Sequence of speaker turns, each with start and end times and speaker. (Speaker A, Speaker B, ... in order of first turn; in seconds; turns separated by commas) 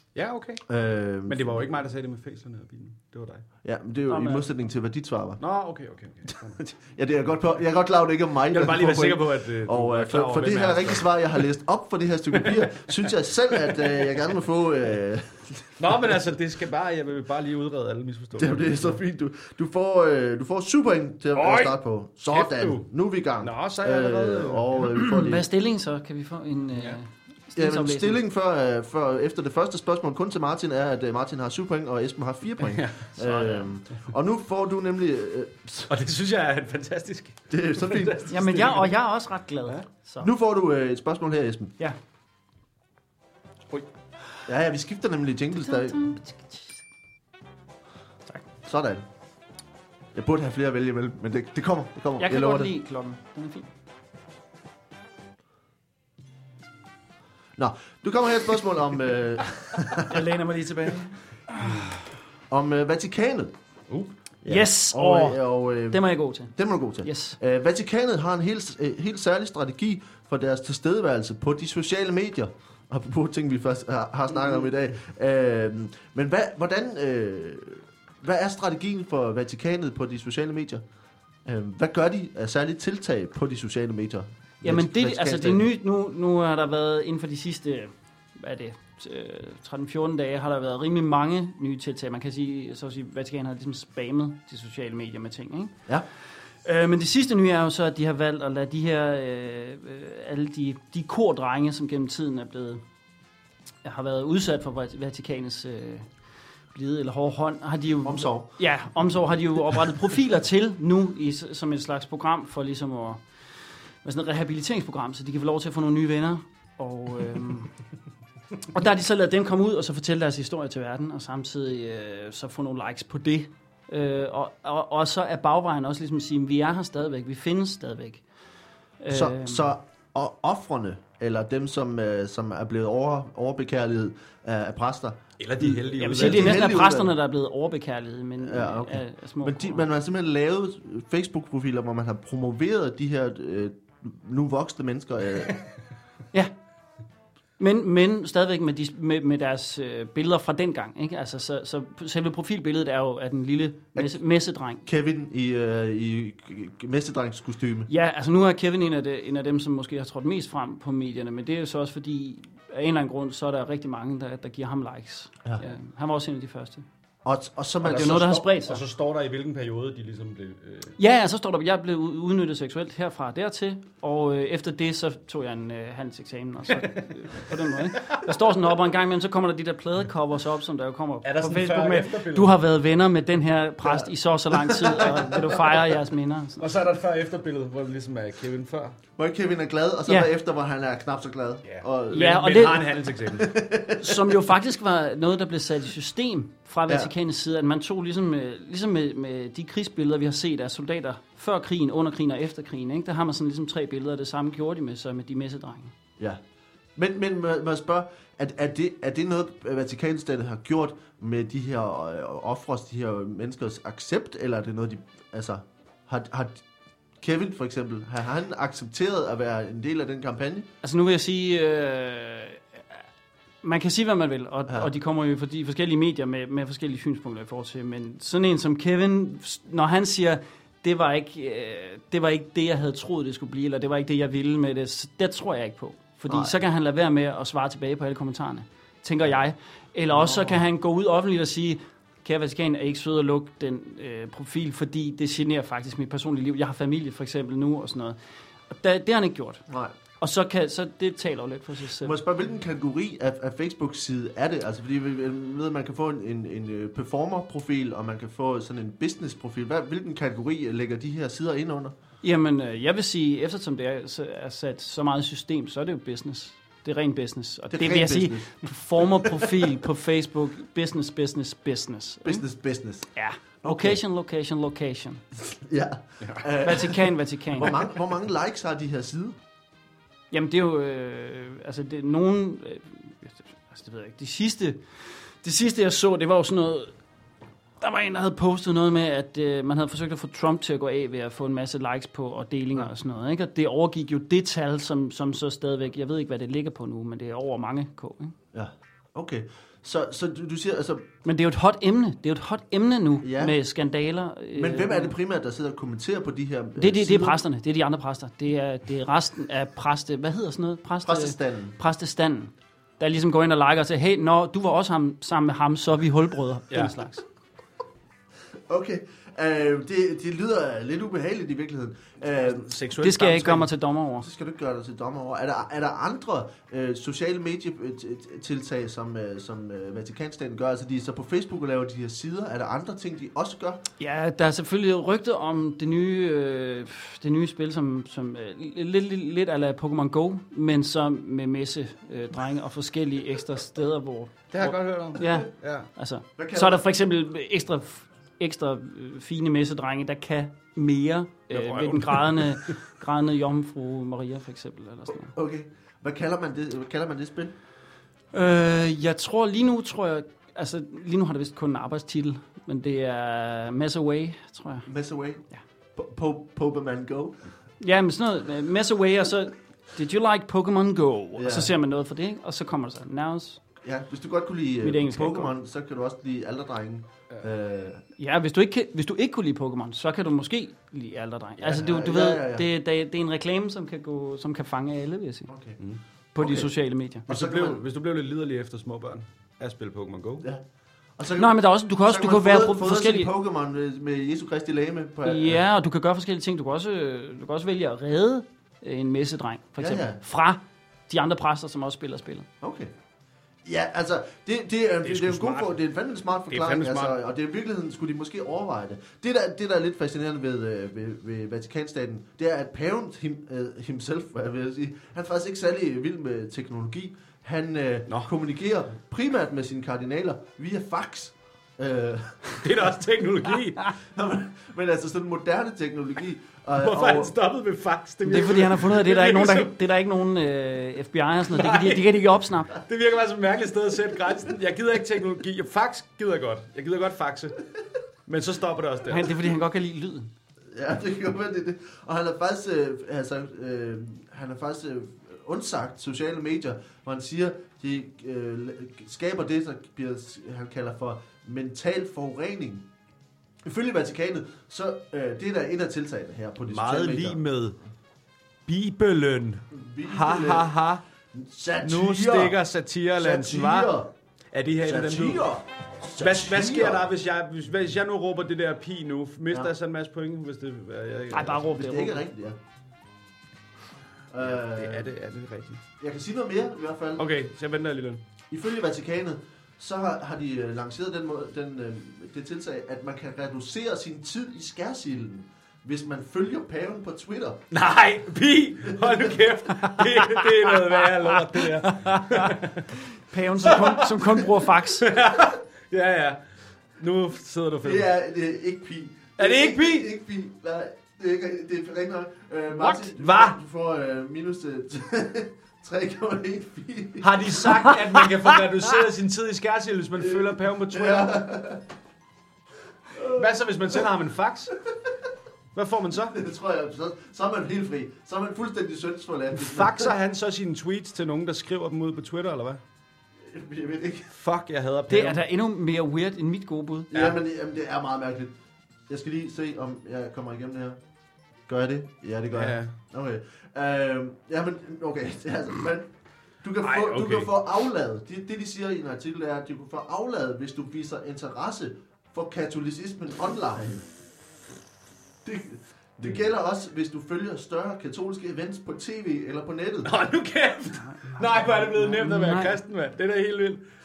Speaker A: 0.1-0.6, Speaker B: 0.7-1.6, Speaker A: 1.3-3.5, Speaker B: 3.6-5.4, Speaker C: 4.1-4.5, Speaker A: 5.4-6.6, Speaker B: 6.3-15.8, Speaker A: 8.5-11.4, Speaker A: 12.3-14.1, Speaker A: 15.8-19.0, Speaker B: 18.4-25.5, Speaker A: 21.3-22.9, Speaker A: 23.4-25.0, Speaker C: 25.0-28.2, Speaker B: 27.6-35.9, Speaker A: 32.6-33.1, Speaker C: 33.2-33.7, Speaker A: 35.9-38.9, Speaker B: 37.5-38.8, Speaker C: 38.3-40.3, Speaker B: 40.2-41.8, Speaker B: 44.5-46.0, Speaker C: 45.6-46.8, Speaker B: 48.6-49.1, Speaker B: 50.1-52.7, Speaker C: 52.2-53.7, Speaker B: 57.6-60.2, Speaker C: 59.9-61.7, Speaker A: 61.5-62.0, Speaker B: 62.5-63.5, Speaker B: 64.4-80.8, Speaker C: 64.5-67.4, Speaker B: 81.5-85.7, Speaker C: 84.6-95.8, Speaker C: 96.7-102.8, Speaker C: 103.8-106.1, Speaker C: 106.7-113.2, Speaker B: 108.0-108.5, Speaker C: 114.0-117.7, Speaker C: 118.7-128.2, Speaker C: 129.0-129.7, Speaker B: 129.1-137.1, Speaker A: 135.4-136.7, Speaker C: 136.0-139.9, Speaker B: 138.4-145.6, Speaker C: 147.6-154.8, Speaker B: 154.8-157.9, Speaker C: 157.9-166.8, Speaker B: 167.2-168.5, Speaker C: 167.8-168.8, Speaker A: 167.8-171.0, Speaker C: 171.0-186.7, Speaker A: 176.7-178.5, Speaker A: 181.2-182.6, Speaker B: 183.8-185.9, Speaker A: 186.6-189.0, Speaker B: 189.2-192.4, Speaker A: 191.7-193.6, Speaker C: 192.1-192.9, Speaker B: 193.3-194.3, Speaker C: 194.0-205.9, Speaker B: 207.0-216.6, Speaker B: 217.2-220.7, Speaker C: 220.8-223.0, Speaker C: 223.6-248.2, Speaker B: 236.3-236.5, Speaker B: 240.1-240.6, Speaker C: 248.7-249.6, Speaker C: 250.2-252.2, Speaker B: 252.0-261.9, Speaker C: 262.2-272.4, Speaker B: 267.7-269.5, Speaker B: 272.2-273.1, Speaker C: 273.1-275.2, Speaker B: 273.6-274.0, Speaker B: 275.5-279.4, Speaker C: 276.6-277.8, Speaker C: 280.3-286.9, Speaker C: 287.8-298.4, Speaker B: 298.5-301.1, Speaker C: 301.2-305.1, Speaker B: 303.2-303.6, Speaker B: 304.6-307.4, Speaker C: 306.8-317.2, Speaker B: 311.0-311.8, Speaker A: 316.7-317.0, Speaker B: 318.7-322.7, Speaker A: 322.4-323.7, Speaker C: 323.0-324.3, Speaker B: 324.2-333.8, Speaker C: 334.0-355.3, Speaker A: 344.5-345.9, Speaker B: 346.4-346.8, Speaker A: 351.5-352.7, Speaker B: 355.1-357.6, Speaker C: 358.3-364.9, Speaker B: 364.9-365.4, Speaker B: 366.0-367.4, Speaker C: 367.8-373.6, Speaker B: 371.4-371.7, Speaker B: 373.8-378.0, Speaker C: 374.8-375.5, Speaker C: 378.2-385.5, Speaker B: 381.6-382.7, Speaker B: 385.5-385.8, Speaker C: 386.4-387.3, Speaker B: 386.4-386.7, Speaker B: 387.3-387.8, Speaker A: 387.3-390.5, Speaker B: 391.2-395.6, Speaker C: 391.4-393.3, Speaker C: 395.2-402.5, Speaker B: 399.8-400.2, Speaker B: 402.6-402.9, Speaker B: 403.6-422.6, Speaker A: 405.0-405.8, Speaker A: 406.5-407.2, Speaker A: 422.6-423.9, Speaker B: 424.1-427.4, Speaker A: 426.8-429.8, Speaker C: 428.2-432.8, Speaker A: 431.5-432.2, Speaker A: 432.8-437.6, Speaker A: 438.3-439.4, Speaker C: 439.1-440.3, Speaker B: 440.7-452.9, Speaker B: 453.6-457.4, Speaker A: 456.7-457.8, Speaker A: 458.7-461.0, Speaker B: 459.7-460.7, Speaker B: 461.3-462.6, Speaker A: 461.8-463.9, Speaker B: 463.2-464.1, Speaker A: 464.5-465.5, Speaker B: 464.8-467.1, Speaker A: 466.2-471.7, Speaker C: 471.3-472.2, Speaker B: 471.7-472.6, Speaker B: 474.3-475.1, Speaker A: 474.4-475.8, Speaker B: 476.0-477.3, Speaker A: 477.2-478.2, Speaker B: 478.5-487.6, Speaker A: 487.7-492.9, Speaker B: 488.9-489.3, Speaker C: 490.2-492.6, Speaker C: 493.1-495.1, Speaker A: 493.6-496.4, Speaker A: 497.0-498.1, Speaker B: 497.8-507.5, Speaker A: 499.4-500.1, Speaker A: 502.8-503.6, Speaker A: 507.2-511.4, Speaker B: 510.2-511.9, Speaker B: 513.1-513.5, Speaker A: 513.3-514.8, Speaker A: 515.8-516.4, Speaker B: 516.3-520.1, Speaker A: 519.5-522.8, Speaker B: 523.5-524.3, Speaker A: 524.3-525.4, Speaker C: 525.1-527.1, Speaker B: 527.1-528.5, Speaker B: 529.1-531.0, Speaker B: 531.7-536.1, Speaker A: 532.5-533.0, Speaker B: 536.6-544.1, Speaker A: 536.8-537.5, Speaker B: 545.4-550.1, Speaker A: 550.0-553.8, Speaker C: 551.4-552.8